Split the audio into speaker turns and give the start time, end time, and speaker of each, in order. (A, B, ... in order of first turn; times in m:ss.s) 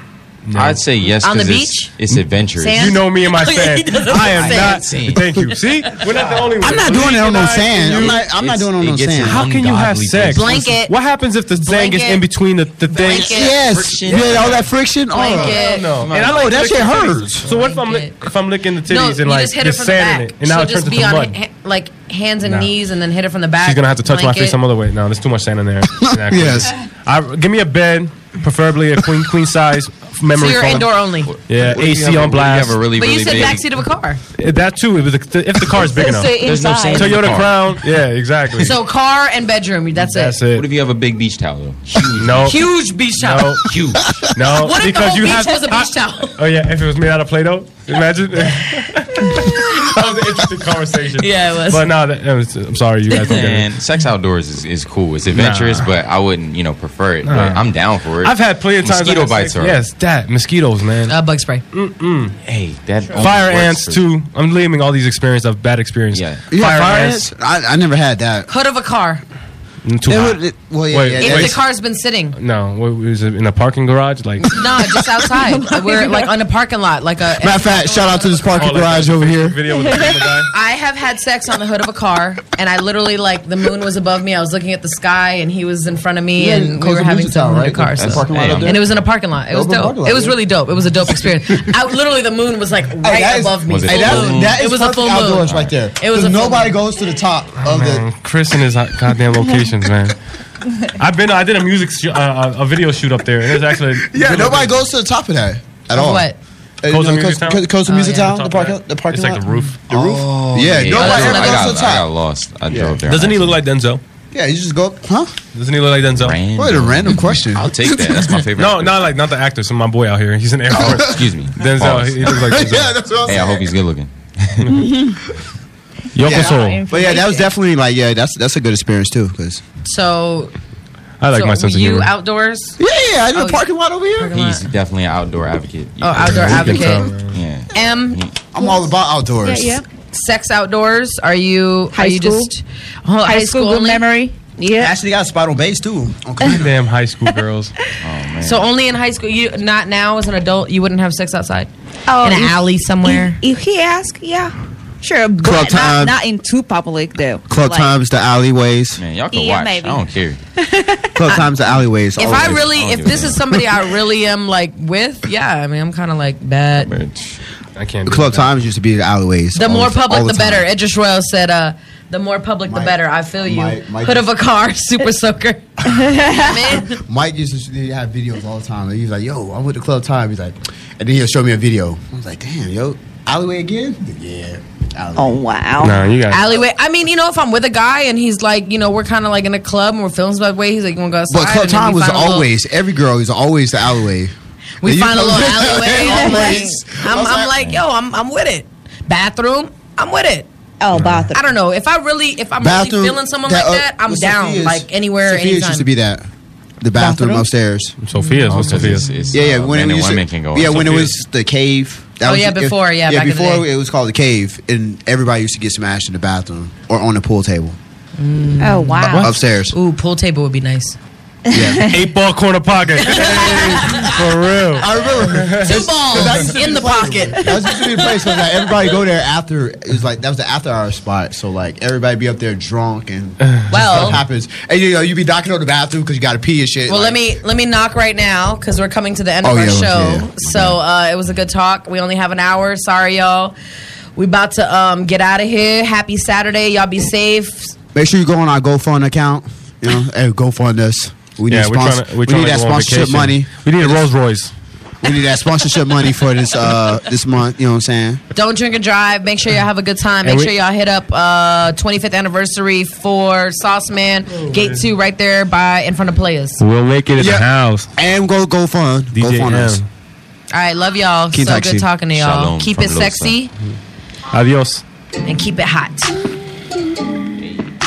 0:00.5-0:00.8 A
0:00.5-0:03.0 B
0:01.2-0:01.9 C
0:02.6-0:05.0 C
0:02.8-0:08.2 A
0:04.4-0:05.2 B
0:06.6-0:09.4 D
0:07.9-0:10.7 B
0:09.2-0:13.5 A
0:10.3-0:11.0 C
0:11.6-0:12.2 C
0:12.9-0:13.6 C
0:13.1-0:15.6 D
0:13.5-0:14.7 B
0:15.1-0:15.9 C
0:15.2-0:21.3 A
0:16.0-0:16.6 B
0:16.1-0:17.5 D
0:17.4-0:18.1 C
0:18.9-0:24.6 C
0:22.4-0:22.7 A
0:23.6-0:31.0 A
0:25.9-0:26.7 D
0:30.4-0:31.3 C
0:31.3-0:33.8 B
0:31.5-0:32.8 A
0:33.0-0:34.2 C
0:34.4-0:38.8 A
0:35.7-0:37.4 E
0:36.4-0:37.8 B
0:38.6-0:40.4 C
0:40.0-0:40.7 A
0:40.6-0:42.7 B
0:42.2-0:43.7 A
0:42.5-0:43.6 C
0:43.6-0:44.3 B
0:44.3-0:53.7 A
0:44.6-0:46.4 C
0:51.2-0:51.9 C
0:53.2-0:59.8 B
0:55.3-0:55.9 A
0:57.2-0:57.6 A
0:58.2-1:01.2 A
1:01.1-1:01.6 C
1:01.7-1:02.4 A
1:02.4-1:04.0 B
1:03.2-1:07.2 A
1:06.1-1:06.4 B
1:06.5-1:08.5 D
1:08.5-1:09.2 C
1:09.8-1:11.6 A
1:10.1-1:11.6 D
1:11.2-1:12.4 C
1:12.4-1:14.5 A
1:14.5-1:18.2 C
1:15.3-1:16.3 E
1:17.4-1:19.6 D
1:18.6-1:20.5 A
1:19.7-1:20.2 E
1:20.5-1:36.8 C
1:26.4-1:28.9 D
1:28.0-1:28.9 B
1:29.5-1:30.4 D
1:33.0-1:38.1 D
1:33.7-1:34.6 B
1:35.5-1:35.7 B
1:37.6-1:40.2 A
1:41.0-1:44.8 A
1:44.1-1:46.3 D
1:45.9-1:46.4 C
1:46.8-1:52.1 D
1:46.9-1:49.9 A
1:47.9-1:48.4 C
1:49.9-1:53.6 B
1:50.9-1:51.7 C
1:52.7-1:53.0 D
1:53.1-1:54.0 A
1:54.3-1:55.4 D
1:55.5-1:56.4 A
1:56.2-1:59.1 B
1:56.6-1:58.4 D
1:58.6-2:03.0 A
2:00.7-2:01.1 D
2:00.9-2:02.6 B
2:02.3-2:03.7 D
2:03.2-2:04.6 B
2:04.7-2:05.2 E
2:06.2-2:06.8 A
2:06.2-2:07.5 E
2:06.2-2:09.6 D
2:09.8-2:10.5 C
2:11.2-2:12.1 A
2:11.3-2:12.8 C
2:12.8-2:14.3 D
2:13.4-2:14.7 C
2:14.3-2:18.4 B
2:16.0-2:17.1 C
2:16.2-2:17.4 A
2:17.7-2:18.2 C
2:18.5-2:19.8 D
2:19.4-2:19.8 E
2:20.1-2:24.0 C
2:21.9-2:22.5 E
2:23.2-2:25.0 E
2:24.8-2:26.8 D
2:26.5-2:27.7 A
2:28.0-2:28.7 B
2:28.4-2:31.7 C
2:32.1-2:38.0 E
2:32.2-2:33.4 C
2:35.4-2:36.2 D
2:37.5-2:39.0 D
2:39.0-2:40.4 B
2:39.3-2:40.0 E
2:40.6-2:41.3 E
2:41.2-2:43.6 D
2:42.2-2:46.9 C
2:42.2-2:43.4 B
2:46.8-2:47.4 B
2:47.8-2:48.5 A
2:48.1-2:50.7 D
2:49.6-2:57.0 C
2:52.7-2:54.3 D
2:55.9-2:56.8 E
2:57.0-3:05.4 D
3:05.2-3:06.0 E
3:05.8-3:06.5 A
3:06.3-3:12.5 C
3:11.3-3:17.6 D
3:14.8-3:20.5 C
3:16.0-3:16.7 E
3:20.8-3:21.4 E
3:21.3-3:25.9 C
3:22.6-3:26.3 D
3:26.8-3:28.0 D
3:27.0-3:27.5 E
3:28.0-3:29.2 A
3:28.1-3:29.3 C
3:28.5-3:31.1 B
3:29.3-3:37.8 D
3:32.2-3:33.7 C
3:38.2-3:41.0 C
3:38.6-3:39.3 E
3:39.2-3:39.8 D
3:41.5-3:42.1 E
3:41.5-3:41.9 D
3:41.9-3:45.8 A
3:43.0-3:44.2 C
3:44.7-3:57.3 D
3:45.5-3:47.8 C
3:53.7-3:54.2 C
3:56.9-4:03.5 C
3:59.4-4:00.8 D
4:04.2-4:07.8 C
4:07.9-4:14.1 D
4:11.5-4:14.5 A
4:15.0-4:18.2 D
4:18.4-4:26.6 C
4:20.2-4:20.5 A
4:24.5-4:24.8 A
4:26.6-4:27.9 A
4:27.2-4:29.8 D
4:29.1-4:29.9 A
4:30.5-4:33.5 C
4:31.3-4:31.9 D
4:32.2-4:33.4 B
4:34.3-4:34.8 A
4:35.3-4:36.1 C
4:37.4-4:37.6 B